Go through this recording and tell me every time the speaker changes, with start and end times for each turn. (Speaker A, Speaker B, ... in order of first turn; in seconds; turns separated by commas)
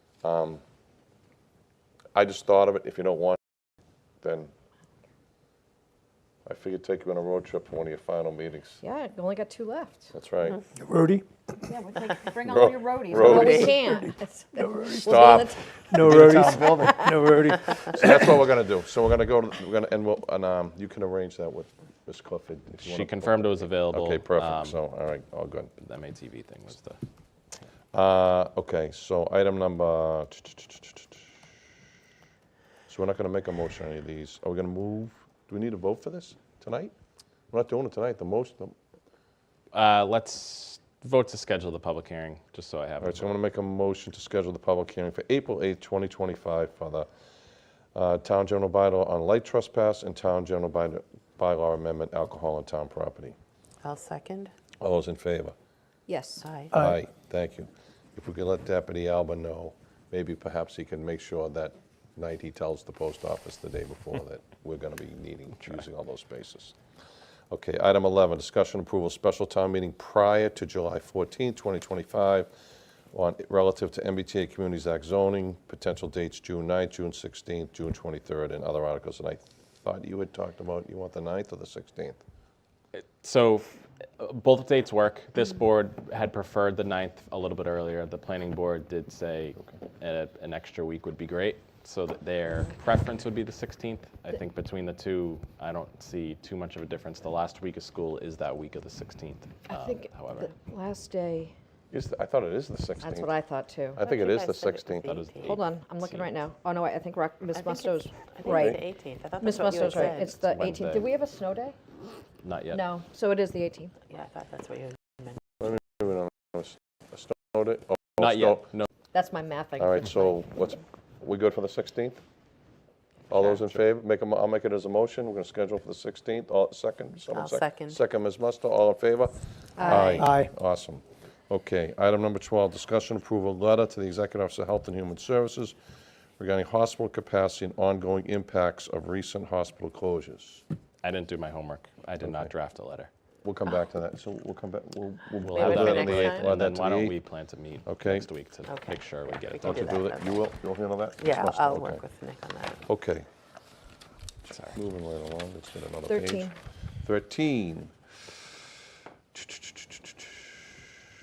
Speaker A: 0.2-0.6, Speaker A: 2.1-3.4, Speaker A: 4.2-4.5, Speaker A: 6.5-8.8, Speaker B: 8.8-10.1, Speaker A: 10.1-10.6, Speaker C: 10.8-11.3, Speaker B: 11.7-15.8, Speaker A: 12.4-13.7, Speaker C: 13.3-18.3, Speaker A: 15.0-25.7, Speaker D: 22.8-24.8, Speaker D: 25.8-27.0, Speaker A: 27.9-31.2, Speaker A: 32.9-36.9, Speaker A: 37.5-38.8, Speaker D: 39.7-43.2, Speaker A: 43.0-47.1, Speaker A: 48.0-53.4, Speaker E: 53.8-54.5, Speaker A: 54.8-55.5, Speaker B: 56.1-56.5, Speaker E: 56.4-56.8, Speaker A: 56.7-66.8, Speaker A: 67.5-72.5, Speaker A: 73.1-82.2, Speaker D: 82.9-100.5, Speaker B: 99.7-101.5, Speaker A: 101.9-103.3, Speaker B: 103.0-104.0, Speaker A: 104.0-105.1, Speaker E: 104.0-105.6, Speaker D: 105.1-106.3, Speaker B: 105.4-108.8, Speaker E: 107.5-110.3, Speaker B: 109.4-111.8, Speaker D: 110.1-111.1, Speaker D: 112.4-112.8, Speaker B: 112.7-113.9, Speaker E: 114.1-115.4, Speaker A: 115.6-118.7, Speaker D: 118.2-118.9, Speaker B: 119.1-120.4, Speaker A: 119.8-122.2, Speaker A: 123.3-135.8, Speaker E: 127.3-128.0, Speaker B: 129.8-130.3, Speaker C: 130.2-130.5, Speaker A: 136.4-140.6, Speaker D: 141.0-143.1, Speaker A: 142.2-142.5, Speaker A: 143.4-147.2, Speaker D: 145.4-150.0, Speaker E: 145.6-146.5, Speaker A: 147.9-148.3, Speaker E: 148.7-150.4, Speaker A: 149.6-152.0, Speaker E: 151.2-152.8, Speaker A: 152.9-153.3, Speaker D: 154.5-154.8, Speaker A: 154.5-156.5, Speaker B: 156.1-156.5, Speaker A: 157.0-157.9, Speaker A: 159.3-160.4